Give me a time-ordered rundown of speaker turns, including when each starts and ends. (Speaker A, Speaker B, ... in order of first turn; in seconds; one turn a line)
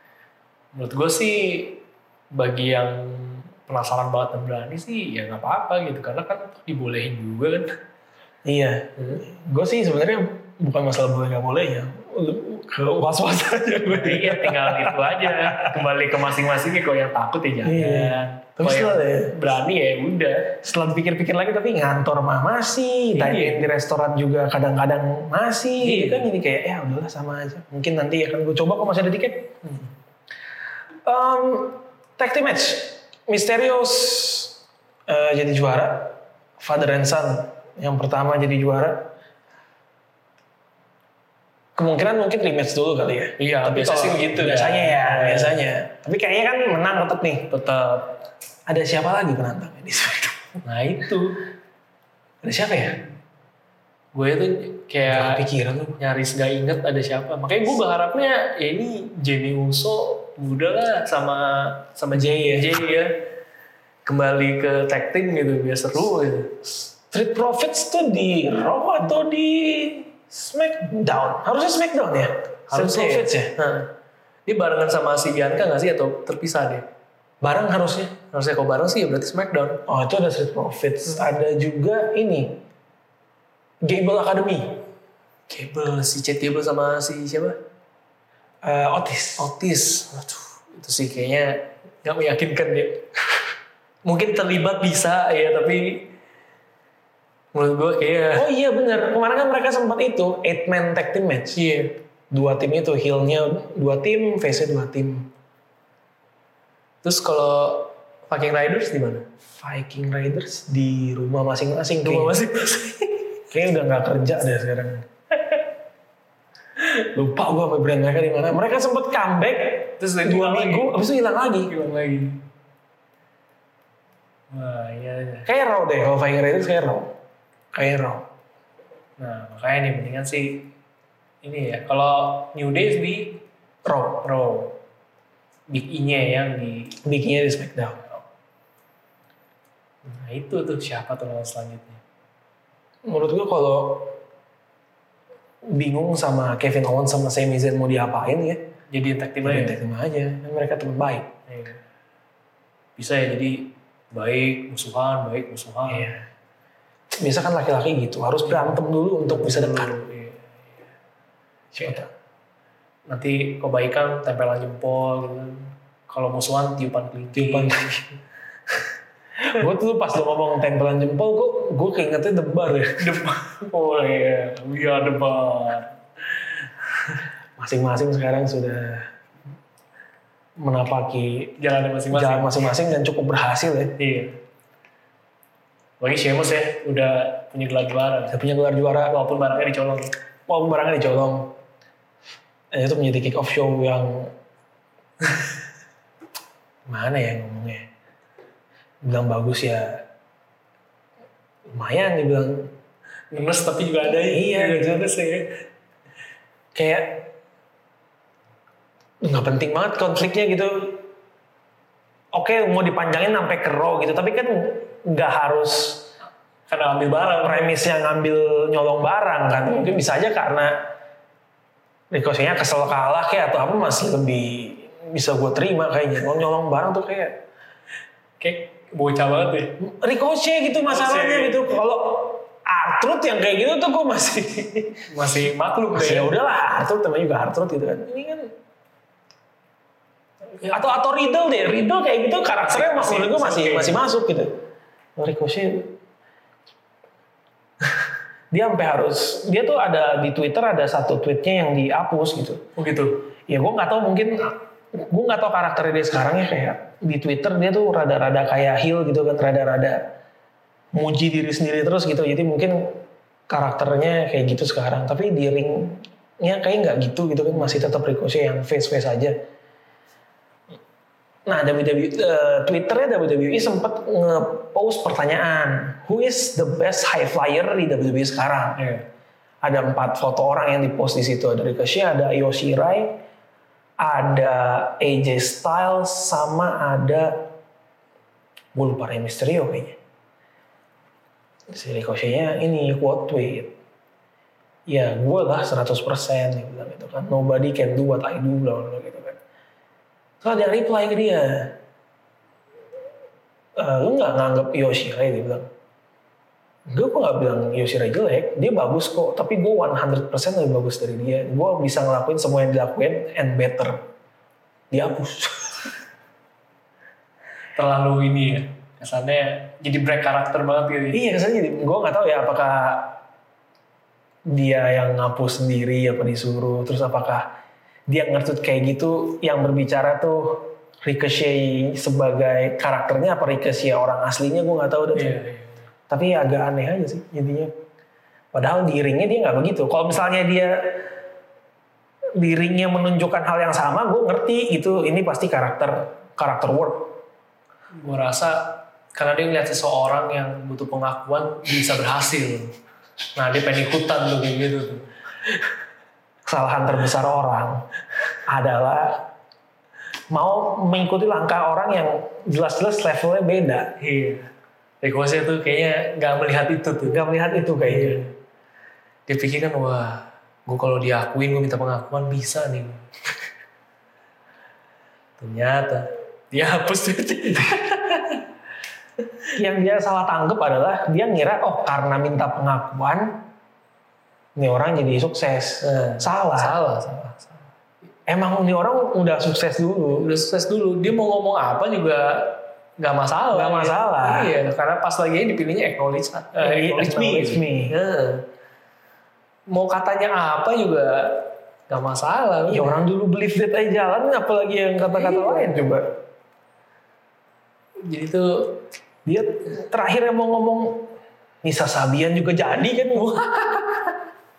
Speaker A: 0.7-1.8
Speaker A: 2.3-7.7
Speaker B: 8.4-15.8
Speaker A: 9.0-9.2
Speaker A: 13.9-20.5
Speaker B: 17.6-19.3
Speaker B: 20.6-29.5
Speaker A: 23.1-23.6
Speaker A: 25.8-26.3
Speaker A: 29.6-29.9
Speaker B: 31.1-34.5
Speaker B: 35.1-39.1
Speaker B: 41.8-47.5
Speaker A: 43.4-45.6
Speaker A: 47.5-48.2
Speaker B: 48.7-50.6
Speaker A: 50.6-51.4
Speaker B: 52.4-53.0
Speaker A: 54.1-55.4
Speaker B: 55.0-56.0
Speaker A: 56.0-63.2
Speaker B: 62.1-62.8
Speaker A: 64.0-66.5
Speaker B: 66.6-73.5
Speaker A: 72.7-73.9
Speaker A: 74.5-76.8
Speaker B: 77.4-78.1
Speaker A: 78.3-79.8
Speaker B: 79.9-82.6
Speaker B: 83.8-84.8
Speaker A: 85.5-87.5
Speaker B: 88.6-89.5
Speaker A: 89.4-93.4
Speaker A: 94.0-96.0
Speaker A: 97.5-98.5
Speaker B: 98.3-101.6
Speaker A: 101.5-101.9
Speaker B: 102.3-105.3
Speaker A: 107.0-109.2
Speaker B: 109.6-112.3
Speaker A: 112.0-113.3
Speaker B: 113.5-115.0
Speaker B: 116.8-121.7
Speaker A: 120.0-120.9
Speaker A: 121.7-122.4
Speaker A: 124.5-125.5
Speaker B: 125.5-127.1
Speaker B: 127.7-128.2
Speaker A: 129.2-130.7
Speaker A: 131.4-133.4
Speaker B: 133.9-134.2
Speaker A: 134.2-134.7
Speaker A: 135.7-137.0
Speaker B: 137.0-138.0
Speaker A: 140.0-142.0
Speaker B: 143.1-144.2
Speaker B: 145.7-148.6
Speaker A: 148.9-149.8
Speaker B: 149.4-151.3
Speaker A: 151.5-151.8
Speaker A: 153.0-156.2
Speaker B: 155.9-156.2
Speaker B: 157.1-159.9
Speaker A: 158.4-160.6
Speaker B: 161.7-162.1
Speaker A: 163.1-168.0
Speaker B: 167.3-168.0
Speaker B: 169.4-173.0
Speaker A: 173.0-176.5
Speaker B: 177.6-179.1
Speaker B: 180.6-181.5
Speaker A: 181.6-182.7
Speaker B: 182.1-183.9
Speaker A: 184.0-184.3
Speaker A: 186.0-188.4
Speaker B: 188.3-189.1
Speaker A: 189.1-190.1
Speaker B: 190.5-191.5
Speaker B: 192.7-194.3
Speaker B: 196.9-197.8
Speaker B: 199.0-200.0
Speaker B: 201.7-202.7
Speaker A: 203.3-205.6
Speaker B: 204.1-205.1
Speaker B: 206.7-207.3
Speaker B: 209.2-211.0
Speaker B: 212.3-216.1
Speaker A: 216.7-217.8
Speaker B: 217.3-220.7
Speaker B: 222.1-227.4
Speaker A: 228.4-229.7
Speaker B: 229.8-235.0
Speaker A: 230.9-231.7
Speaker A: 235.1-236.3
Speaker B: 235.9-238.5
Speaker B: 240.7-244.5
Speaker A: 242.6-244.0
Speaker B: 245.2-245.9
Speaker B: 248.5-252.6
Speaker A: 252.8-253.2
Speaker B: 253.5-260.0
Speaker B: 260.9-263.0
Speaker B: 263.5-269.3
Speaker B: 271.4-278.8
Speaker A: 278.8-279.0
Speaker B: 279.6-283.1
Speaker B: 284.0-287.4
Speaker B: 288.7-289.9
Speaker B: 291.7-293.7
Speaker B: 294.9-299.4
Speaker B: 300.4-301.7
Speaker B: 303.8-305.7
Speaker B: 306.9-314.0
Speaker B: 314.9-315.9
Speaker A: 317.8-321.2
Speaker B: 321.1-323.2
Speaker B: 324.5-327.5
Speaker B: 328.1-335.4
Speaker A: 335.1-335.8
Speaker B: 336.1-337.7
Speaker B: 338.5-341.1
Speaker B: 342.4-347.2
Speaker A: 348.0-352.7
Speaker A: 353.4-355.2
Speaker B: 356.4-357.8
Speaker B: 358.4-359.2
Speaker B: 360.3-363.9
Speaker A: 364.0-364.5
Speaker A: 365.0-367.2
Speaker B: 367.1-368.2
Speaker A: 367.8-368.3
Speaker A: 369.3-373.1
Speaker A: 375.4-378.4
Speaker B: 379.6-383.3
Speaker B: 384.6-386.7
Speaker A: 385.8-387.7
Speaker B: 388.3-390.3
Speaker A: 390.1-398.4
Speaker B: 393.5-394.5
Speaker B: 396.6-397.9
Speaker A: 399.7-403.0
Speaker B: 402.7-406.1
Speaker A: 405.2-405.7
Speaker A: 408.0-408.8
Speaker B: 409.2-411.1
Speaker B: 411.6-413.4
Speaker A: 413.1-414.2